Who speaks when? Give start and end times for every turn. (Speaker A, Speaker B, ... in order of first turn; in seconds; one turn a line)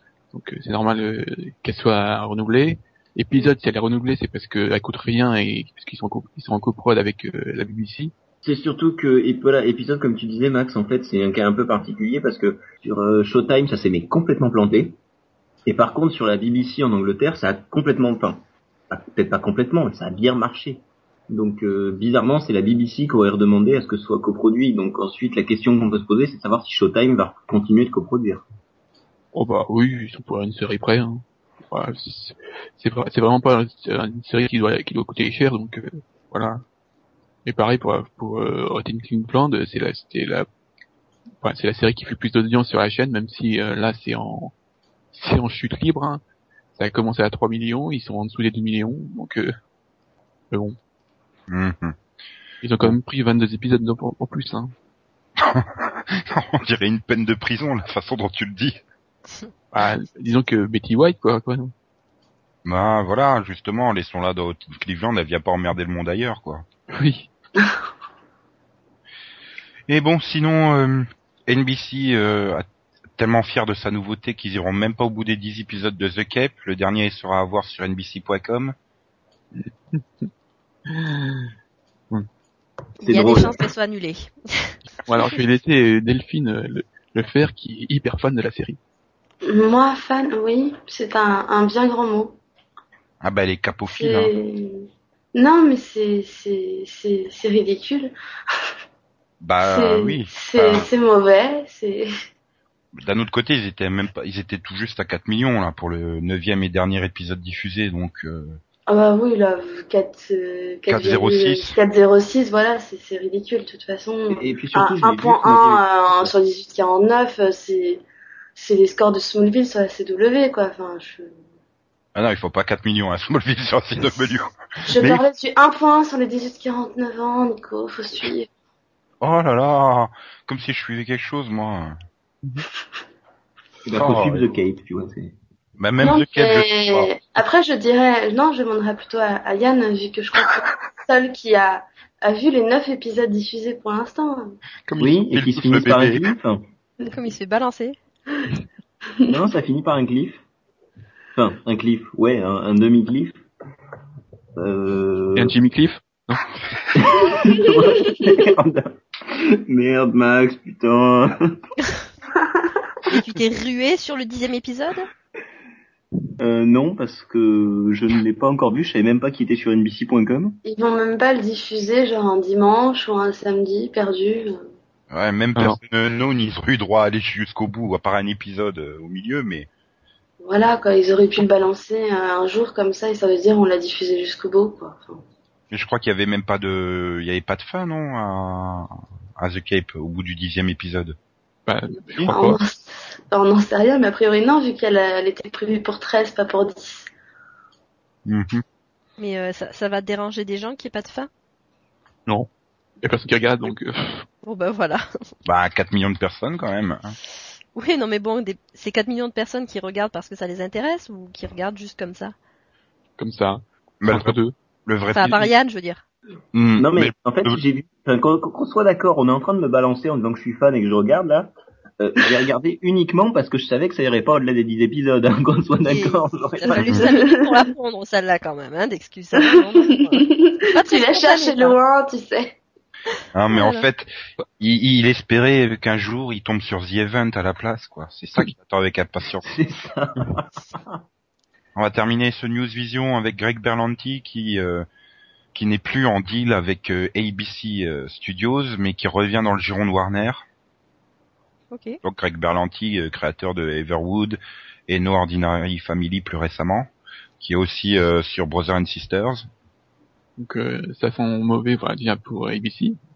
Speaker A: 0.3-8.1
Speaker B: 8.4-15.0
Speaker B: 15.7-28.4
Speaker A: 29.3-36.6
Speaker A: 37.5-40.5
Speaker A: 41.4-44.5
Speaker A: 45.1-46.2
Speaker A: 46.8-49.5
Speaker A: 50.5-50.8
Speaker C: 51.5-52.0
Speaker A: 52.6-54.7
Speaker C: 55.4-58.8
Speaker A: 59.7-61.7
Speaker C: 62.6-66.6
Speaker A: 66.9-67.3
Speaker C: 69.9-72.7
Speaker C: 73.2-78.8
Speaker A: 79.5-80.3
Speaker A: 80.9-81.5
Speaker D: 83.0-85.2
Speaker B: 83.0-83.5
Speaker A: 85.1-88.8
Speaker E: 89.4-92.4
Speaker C: 93.2-94.3
Speaker E: 93.9-98.1
Speaker C: 99.4-100.9
Speaker E: 99.6-102.1
Speaker C: 103.0-108.6
Speaker E: 108.9-118.0
Speaker C: 110.9-111.8
Speaker B: 114.3-116.3
Speaker E: 118.6-121.3
Speaker C: 122.1-125.2
Speaker E: 124.9-128.5
Speaker C: 129.2-132.0
Speaker B: 133.8-135.4
Speaker C: 133.9-134.4
Speaker C: 135.8-137.1
Speaker E: 136.0-144.6
Speaker C: 144.9-146.2
Speaker B: 145.0-146.6
Speaker D: 147.1-148.0
Speaker B: 149.3-150.4
Speaker B: 151.3-153.4
Speaker B: 154.6-155.6
Speaker A: 155.3-156.5
Speaker B: 156.9-161.6
Speaker E: 157.2-158.4
Speaker D: 163.1-165.1
Speaker B: 166.4-170.6
Speaker E: 170.6-174.6
Speaker C: 175.1-179.7
Speaker E: 180.4-185.2
Speaker C: 185.7-191.2
Speaker A: 191.7-192.6
Speaker E: 192.3-197.1
Speaker C: 198.2-198.6
Speaker D: 199.2-201.3
Speaker A: 203.0-204.2
Speaker D: 204.4-205.0
Speaker C: 205.4-207.2
Speaker D: 207.8-212.3
Speaker A: 213.2-214.5
Speaker C: 214.0-215.5
Speaker D: 215.1-216.0
Speaker C: 216.5-217.6
Speaker B: 216.8-227.0
Speaker D: 225.8-231.8
Speaker E: 226.8-227.6
Speaker E: 229.4-232.6
Speaker C: 233.3-239.5
Speaker D: 233.5-233.9
Speaker B: 239.5-240.5
Speaker C: 241.8-244.9
Speaker C: 245.5-250.4
Speaker D: 251.7-252.0
Speaker C: 252.0-259.5
Speaker A: 260.4-263.0